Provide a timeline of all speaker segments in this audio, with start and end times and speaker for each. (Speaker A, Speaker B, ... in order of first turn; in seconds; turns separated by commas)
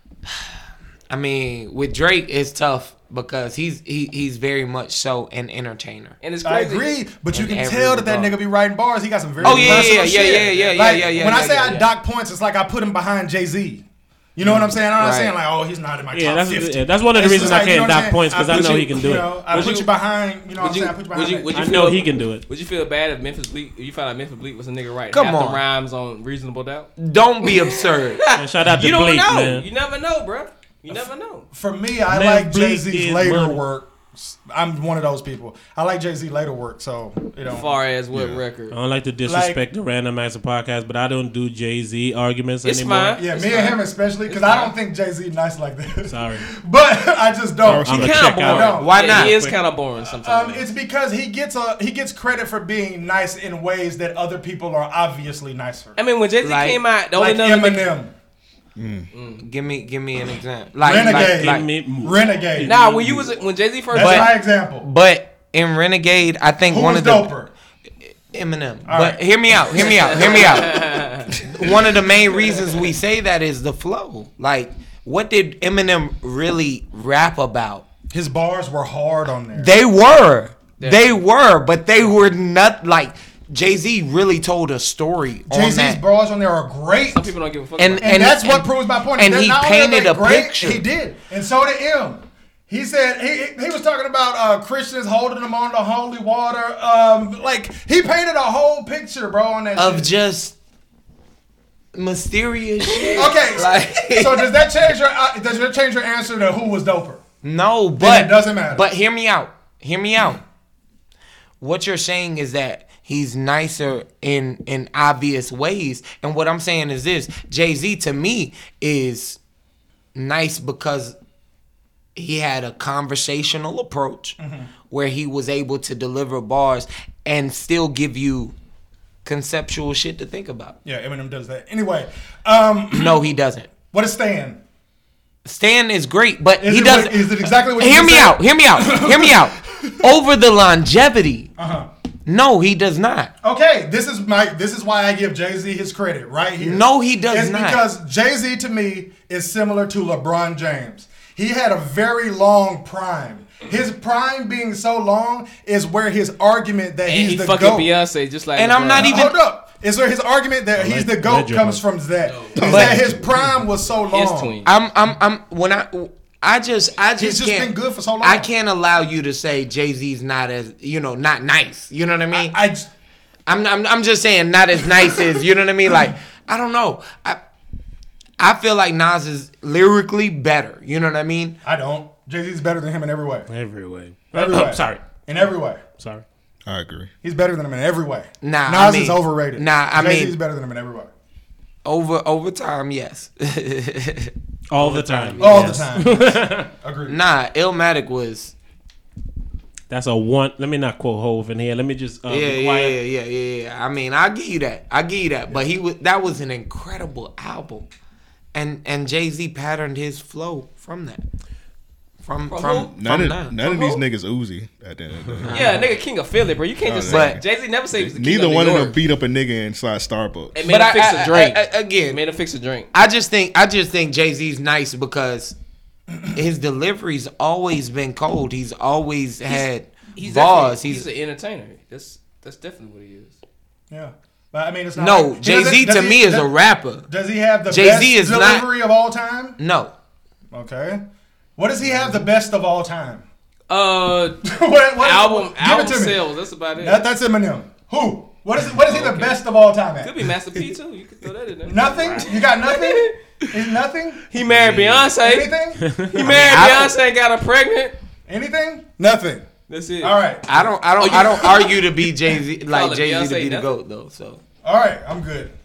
Speaker A: 1.1-6.2, Speaker B: 6.2-6.9, Speaker C: 6.4-13.8, Speaker A: 7.3-8.4, Speaker B: 9.4-11.8, Speaker A: 9.4-11.9, Speaker C: 14.4-21.5, Speaker A: 15.0-15.3, Speaker D: 16.1-19.8, Speaker B: 19.5-19.9, Speaker B: 20.6-26.9, Speaker D: 21.5-22.4, Speaker A: 25.1-25.6, Speaker A: 27.0-28.2, Speaker B: 27.4-31.5, Speaker D: 28.4-29.7, Speaker C: 31.5-37.7, Speaker D: 32.1-33.6, Speaker B: 37.5-38.8, Speaker E: 38.1-38.4, Speaker D: 38.7-43.2, Speaker C: 39.3-39.6, Speaker B: 42.6-44.7, Speaker C: 43.2-49.0, Speaker D: 46.1-46.5, Speaker E: 47.6-48.3, Speaker D: 47.8-49.6, Speaker B: 47.9-50.6, Speaker A: 48.8-49.4, Speaker C: 50.0-56.0, Speaker B: 56.0-57.9, Speaker A: 56.4-56.8, Speaker C: 57.1-58.1, Speaker E: 58.8-59.1, Speaker B: 59.1-59.4, Speaker A: 59.4-61.7, Speaker C: 60.8-62.8, Speaker D: 61.1-63.1, Speaker B: 62.6-64.4, Speaker C: 63.9-64.9, Speaker A: 64.0-67.3, Speaker C: 66.7-67.5, Speaker A: 68.3-77.8, Speaker C: 68.9-70.5, Speaker B: 69.8-71.3, Speaker C: 78.1-79.7, Speaker A: 79.5-86.0, Speaker B: 80.8-81.2, Speaker C: 85.5-87.3, Speaker B: 87.1-88.3, Speaker A: 87.8-90.8, Speaker C: 88.0-100.1, Speaker A: 99.8-100.5, Speaker A: 101.9-104.5, Speaker C: 103.2-107.2, Speaker A: 107.4-110.4, Speaker C: 108.0-108.9, Speaker A: 111.6-119.4, Speaker A: 120.2-121.2, Speaker A: 122.2-124.4, Speaker C: 124.4-124.7, Speaker A: 124.9-128.5, Speaker A: 129.2-130.8, Speaker C: 130.8-133.2, Speaker A: 132.9-133.7, Speaker C: 133.9-134.6, Speaker A: 135.4-141.5, Speaker C: 136.6-140.0, Speaker C: 141.6-141.9, Speaker A: 142.3-143.3, Speaker C: 143.4-157.9, Speaker A: 146.6-147.8, Speaker B: 157.1-159.2, Speaker A: 158.6-159.3, Speaker C: 159.0-164.5, Speaker D: 160.8-161.8, Speaker B: 162.2-162.7, Speaker E: 162.6-163.3, Speaker A: 162.7-163.0, Speaker B: 164.1-164.7, Speaker A: 164.7-172.6, Speaker C: 167.2-168.5, Speaker C: 172.3-172.9, Speaker A: 173.5-177.4, Speaker A: 178.4-181.6, Speaker C: 181.6-183.5, Speaker D: 183.5-185.1, Speaker C: 184.3-185.8, Speaker D: 186.0-186.2, Speaker E: 186.7-187.1, Speaker C: 187.2-191.1, Speaker A: 188.4-190.4, Speaker A: 191.8-195.9, Speaker D: 194.7-196.7, Speaker C: 195.4-197.2, Speaker A: 197.1-198.5, Speaker D: 199.9-203.0, Speaker A: 202.3-207.9, Speaker A: 208.5-211.2, Speaker A: 212.2-213.6, Speaker B: 212.5-212.9, Speaker E: 212.9-215.7, Speaker A: 215.5-215.9, Speaker B: 215.5-219.0, Speaker E: 216.8-220.6, Speaker A: 217.1-217.4, Speaker B: 220.5-222.9, Speaker A: 220.6-222.2, Speaker A: 222.9-225.6, Speaker A: 226.3-231.1, Speaker B: 229.5-233.4, Speaker C: 233.9-236.5, Speaker A: 235.0-237.1, Speaker C: 237.1-239.6, Speaker A: 237.7-238.7, Speaker A: 239.6-239.9, Speaker C: 240.5-241.0, Speaker C: 241.6-243.2, Speaker B: 243.7-244.4, Speaker C: 244.4-246.3, Speaker B: 245.0-247.0, Speaker C: 246.8-250.3, Speaker B: 248.8-249.4, Speaker B: 250.0-253.1, Speaker C: 251.7-254.2, Speaker B: 254.3-255.6, Speaker E: 254.5-255.0, Speaker C: 255.2-256.7, Speaker D: 255.8-256.1, Speaker B: 256.1-257.9, Speaker A: 256.2-256.9, Speaker C: 258.3-259.5, Speaker B: 259.7-260.2, Speaker C: 260.0-261.3, Speaker A: 260.5-264.4, Speaker B: 261.0-261.8, Speaker B: 262.7-263.7, Speaker C: 264.6-265.5